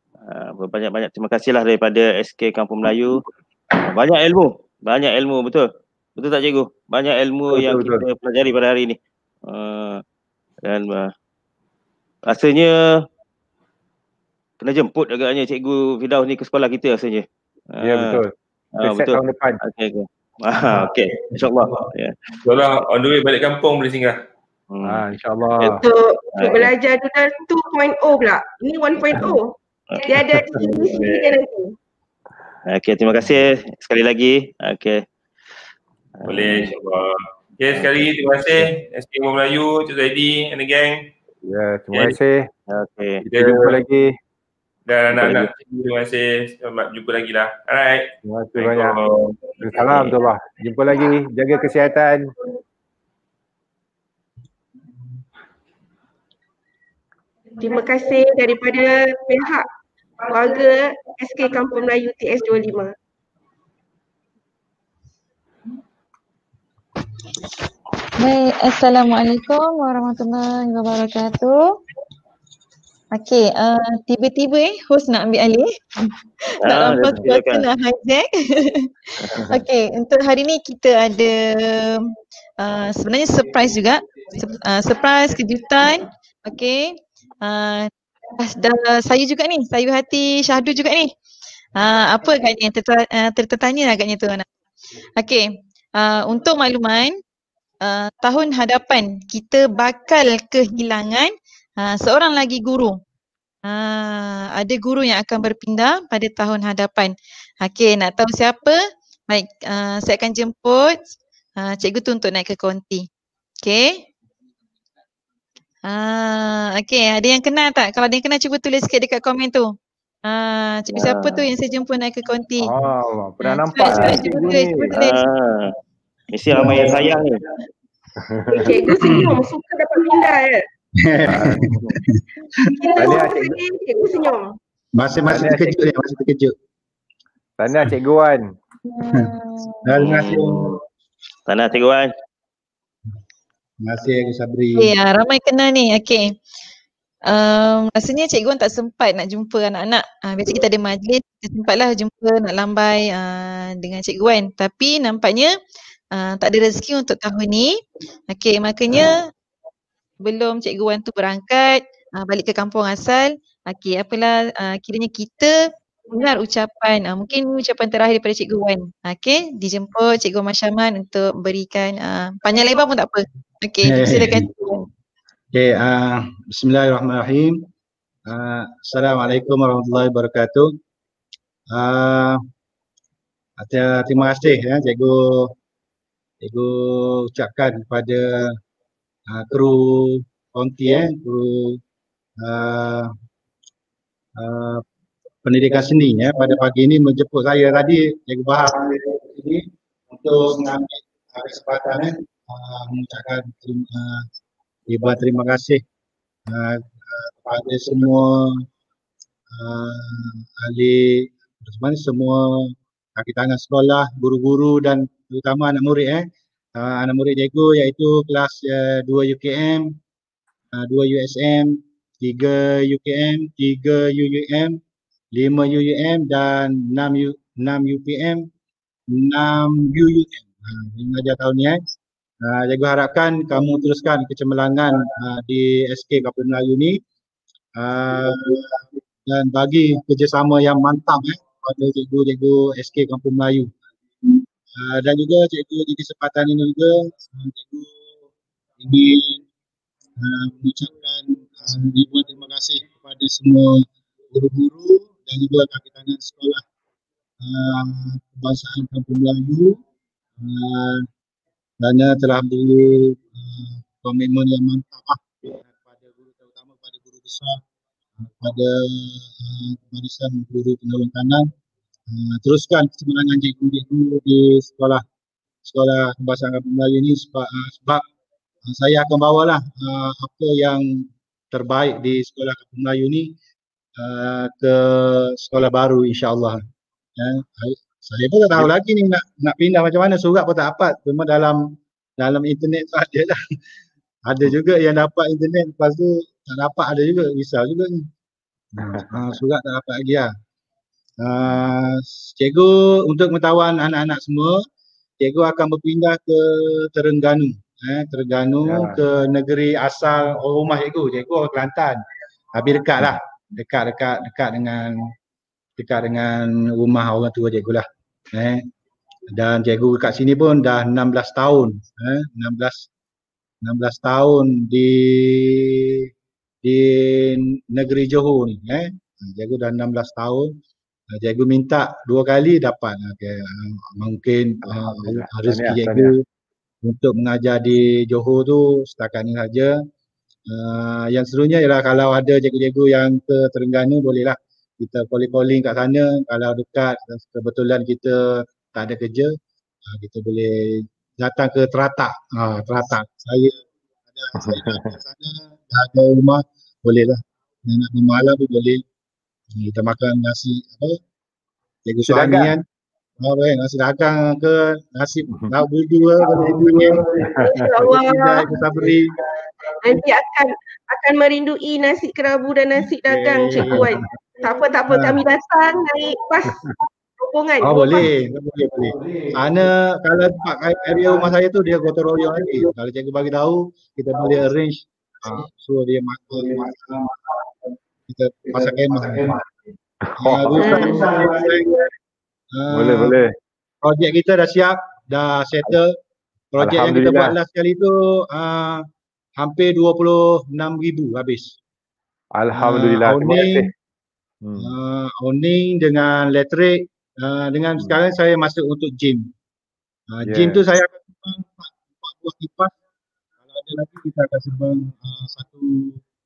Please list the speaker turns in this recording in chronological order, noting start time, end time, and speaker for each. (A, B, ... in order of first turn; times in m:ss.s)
0:00.3-0:10.0 A
0:07.5-0:08.0 B
0:10.6-0:11.1 A
0:12.3-0:13.0 A
0:14.6-0:18.2 A
0:17.8-0:19.6 B
0:18.8-0:22.1 A
0:22.4-0:24.2 C
0:24.7-0:25.1 A
0:24.8-0:25.8 B
0:25.7-0:31.7 D
0:26.3-0:26.7 A
0:29.9-0:31.0 A
0:30.9-0:31.4 C
0:32.7-0:35.0 A
0:36.2-0:36.7 A
0:36.2-0:41.1 C
0:41.4-0:42.5 B
0:42.7-0:43.2 A
0:43.2-0:44.1 B
0:43.3-0:43.8 C
0:44.9-0:50.1 C
0:45.1-0:45.5 A
0:48.2-0:49.0 B
0:49.6-0:52.3 B
0:57.6-0:59.6 D
1:00.2-1:02.9 D
1:08.2-1:11.8 E
1:13.1-1:15.7 E
1:16.6-1:18.9 E
1:16.6-1:17.7 A
1:19.2-1:19.4 A
1:19.5-1:31.1 E
1:31.8-1:34.4 E
1:35.2-1:37.2 E
1:37.8-1:43.0 E
1:43.6-1:53.1 E
1:53.6-1:54.0 E
1:55.8-2:02.7 E
2:00.9-2:01.5 A
2:02.6-2:05.0 B
2:03.4-2:05.2 E
2:03.9-2:04.2 A
2:04.9-2:05.7 A
2:06.3-2:07.4 A
2:06.5-2:07.0 F
2:08.2-2:08.8 B
2:08.5-2:10.6 D
2:09.0-2:09.4 F
2:11.0-2:12.2 F
2:11.3-2:12.0 A
2:12.8-2:14.5 D
2:13.0-2:13.5 B
2:14.9-2:16.5 F
2:15.3-2:15.8 B
2:17.6-2:18.5 B
2:18.9-2:19.8 E
2:19.8-2:20.8 F
2:20.0-2:20.8 A
2:21.5-2:22.1 A
2:23.8-2:24.9 F
2:24.8-2:26.3 E
2:27.3-2:35.5 E
2:36.1-2:39.3 E
2:40.2-2:54.8 E
2:53.8-2:54.5 F
2:55.5-2:57.6 F
2:58.3-3:00.7 F
3:01.7-3:02.4 F
3:03.6-3:05.5 F
3:06.4-3:08.6 F
3:09.3-3:11.8 F
3:12.4-3:13.1 F
3:14.4-3:14.8 F
3:15.4-3:24.2 F
3:24.9-3:25.8 F
3:26.5-3:28.6 F
3:29.5-3:40.0 F
3:40.7-3:44.8 F
3:45.3-3:48.5 F
3:49.1-3:51.8 F
3:52.4-3:57.0 F
3:57.8-4:03.7 F
4:04.3-4:07.9 F
4:08.8-4:09.4 F
4:10.2-4:16.6 F
4:17.4-4:19.8 F
4:20.4-4:21.1 F
4:21.8-4:27.6 F
4:28.3-4:31.5 F
4:32.1-4:35.0 F
4:35.6-4:38.0 F
4:38.6-4:43.3 F
4:44.0-4:46.6 F
4:47.2-4:53.4 F
4:54.2-4:58.1 F
4:58.8-5:00.3 F
5:01.2-5:04.6 F
5:05.2-5:12.0 F
5:08.7-5:09.0 B
5:12.5-5:15.0 F
5:15.8-5:18.6 F
5:19.3-5:22.9 F
5:23.6-5:26.1 F
5:26.6-5:30.5 F
5:31.1-5:36.2 F
5:34.6-5:36.1 B
5:36.8-5:39.8 F
5:40.5-5:49.3 F
5:49.8-5:53.6 F
5:54.1-5:58.8 F
5:54.3-5:55.0 B
5:59.5-6:01.0 F
6:01.8-6:02.6 F
6:02.0-6:02.6 B
6:03.2-6:09.2 F
6:07.2-6:07.7 B
6:07.5-6:08.6 D
6:09.8-6:18.1 D
6:13.1-6:14.0 F
6:13.6-6:13.9 B
6:14.9-6:15.2 F
6:17.6-6:29.5 F
6:30.2-6:31.0 B
6:30.2-6:31.8 F
6:30.6-6:31.3 D
6:32.5-6:33.2 F
6:32.7-6:33.3 B
6:33.8-6:35.9 F
6:36.5-6:38.8 F
6:36.6-6:37.4 B
6:39.4-6:41.6 F
6:42.4-6:43.7 B
6:42.5-6:43.7 F
6:44.4-6:44.7 B
6:44.6-6:49.3 F
6:50.1-6:52.7 F
6:50.2-6:50.6 B
6:53.5-6:56.0 F